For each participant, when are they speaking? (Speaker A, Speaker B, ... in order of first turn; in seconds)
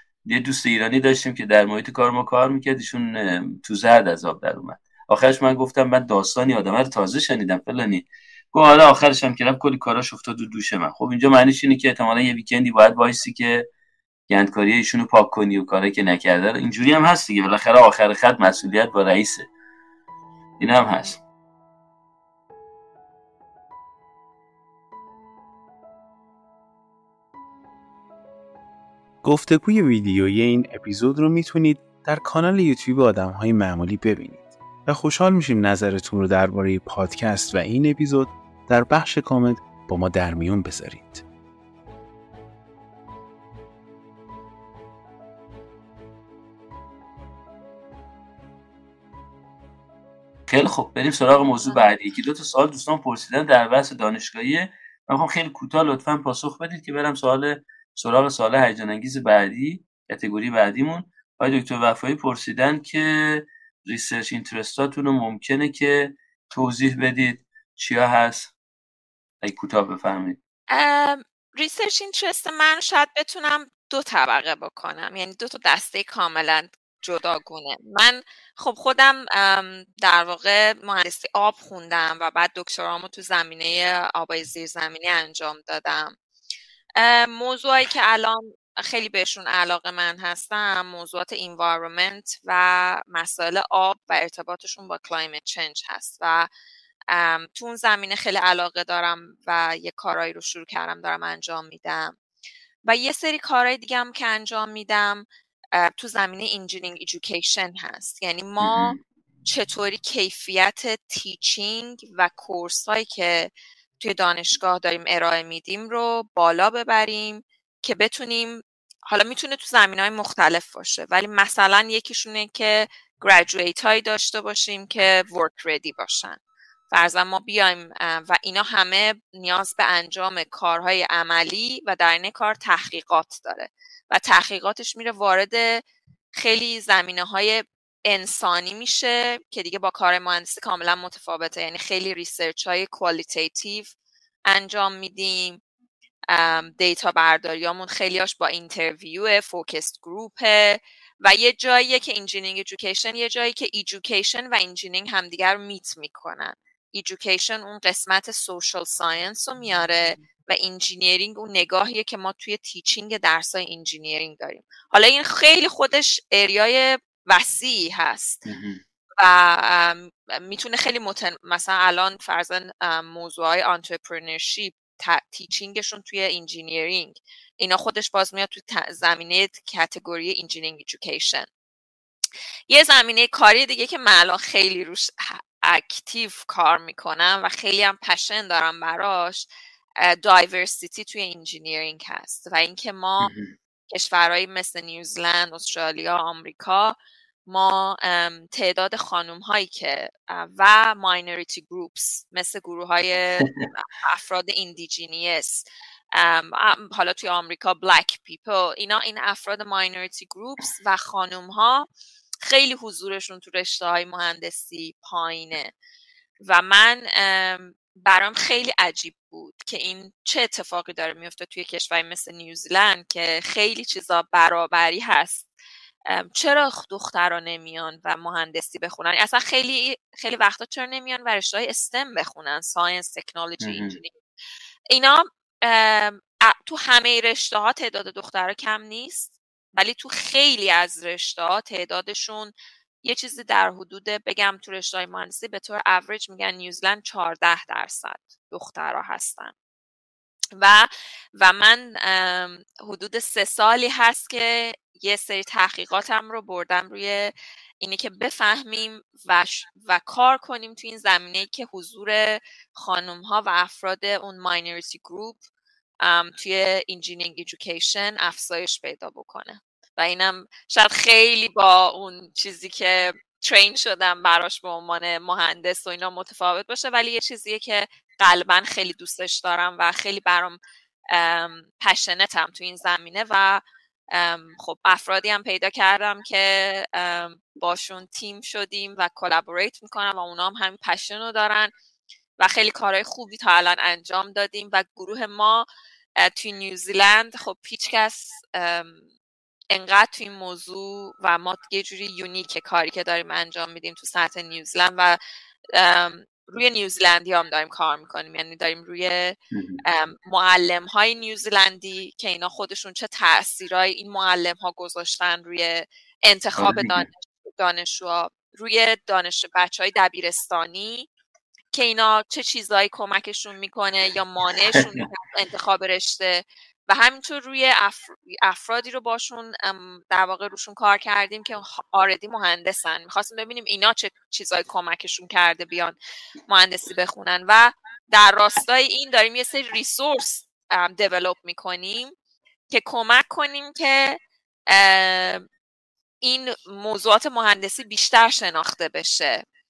Speaker A: 0.3-13.7, 14.3-19.5, 20.6-21.2, 50.5-68.5, 69.4-70.4, 108.6-109.0, 168.5-168.8, 193.2-193.5, 233.6-234.0, 309.5-309.8, 316.6-317.1, 324.7-325.0
Speaker B: 29.2-41.2
Speaker C: 70.7-86.1, 87.0-96.5, 97.1-102.2, 102.8-126.4, 126.9-135.8, 136.4-143.9, 144.5-145.6, 146.3-168.4, 169.2-181.5, 182.7-189.5, 190.0-193.3, 193.9-197.0, 197.5-211.9, 212.5-215.7, 216.4-225.5, 226.1-234.2, 234.9-249.5, 250.6-265.4, 266.0-280.6, 281.1-283.6, 284.1-291.7, 292.4-295.7, 296.2-299.0, 299.7-305.2, 305.7-321.1, 321.7-336.0, 336.5-342.1, 342.7-345.4, 346.2-349.4